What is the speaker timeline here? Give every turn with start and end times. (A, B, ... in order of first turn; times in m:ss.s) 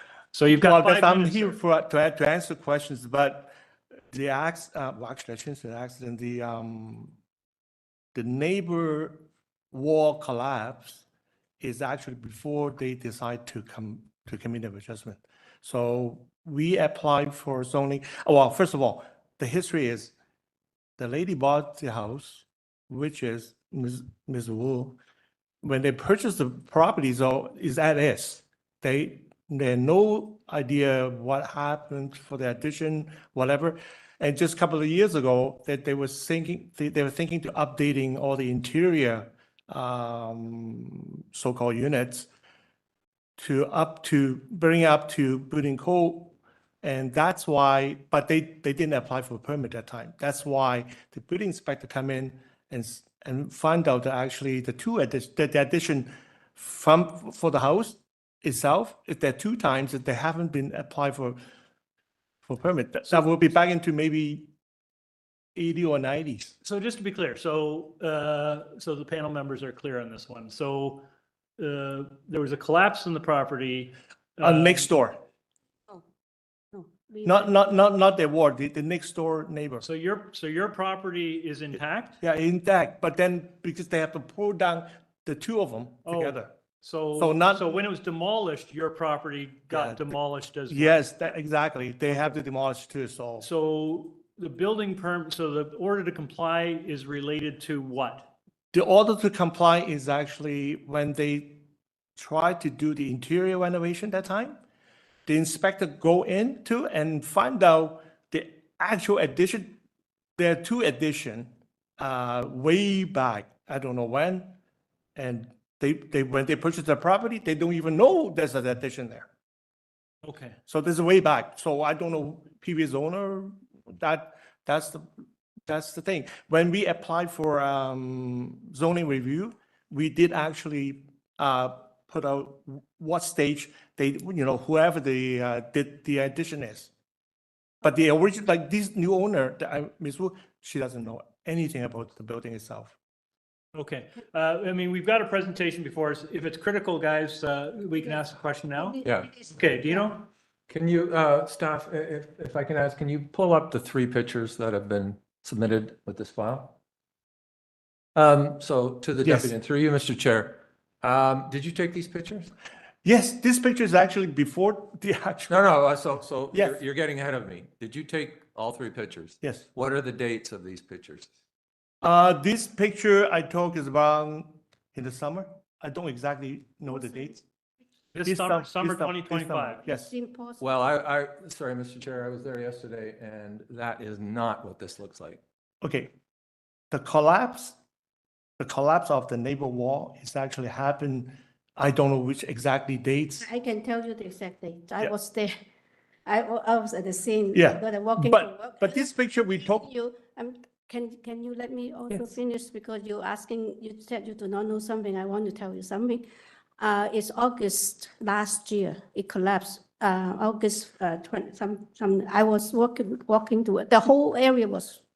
0:00.3-0:01.6 A
0:00.5-0:03.5 B
0:04.1-0:07.2 B
0:08.2-0:11.0 B
0:11.6-0:20.1 B
0:21.0-0:25.0 B
0:25.6-0:42.3 B
0:43.4-1:01.4 B
1:02.5-1:04.5 B
1:05.6-1:06.5 B
1:06.6-1:11.0 A
1:11.6-1:15.0 A
1:14.4-1:15.2 B
1:16.7-1:17.5 C
1:17.2-1:19.8 B
1:19.8-1:22.2 A
1:22.2-1:26.5 B
1:26.0-1:31.0 A
1:27.2-1:27.7 B
1:29.7-1:30.1 B
1:30.7-1:33.5 B
1:33.4-1:38.3 A
1:38.7-1:41.6 B
1:42.2-1:44.6 B
1:45.3-1:49.8 B
1:50.4-1:54.6 B
1:55.2-1:59.3 B
2:00.2-2:00.6 A
2:00.7-2:05.1 B
2:05.7-2:16.9 B
2:17.8-2:23.0 B
2:23.7-2:30.3 A
2:28.9-2:29.4 C
2:29.0-2:29.3 D
2:30.7-2:36.7 D
2:38.2-2:42.5 D
2:39.2-2:39.5 B
2:43.0-2:45.6 B
2:45.5-2:51.3 D
2:49.4-2:49.7 B
2:52.0-2:57.4 B
2:57.1-2:57.4 C
2:58.1-2:59.8 A
2:58.2-3:00.1 B
2:59.8-3:00.8 C
3:00.6-3:05.4 D
3:05.8-3:06.1 B
3:06.9-3:07.8 B
3:08.6-3:13.5 B
3:13.4-3:15.5 C
3:16.3-3:26.2 C
3:17.5-3:19.8 B
3:26.8-3:35.0 C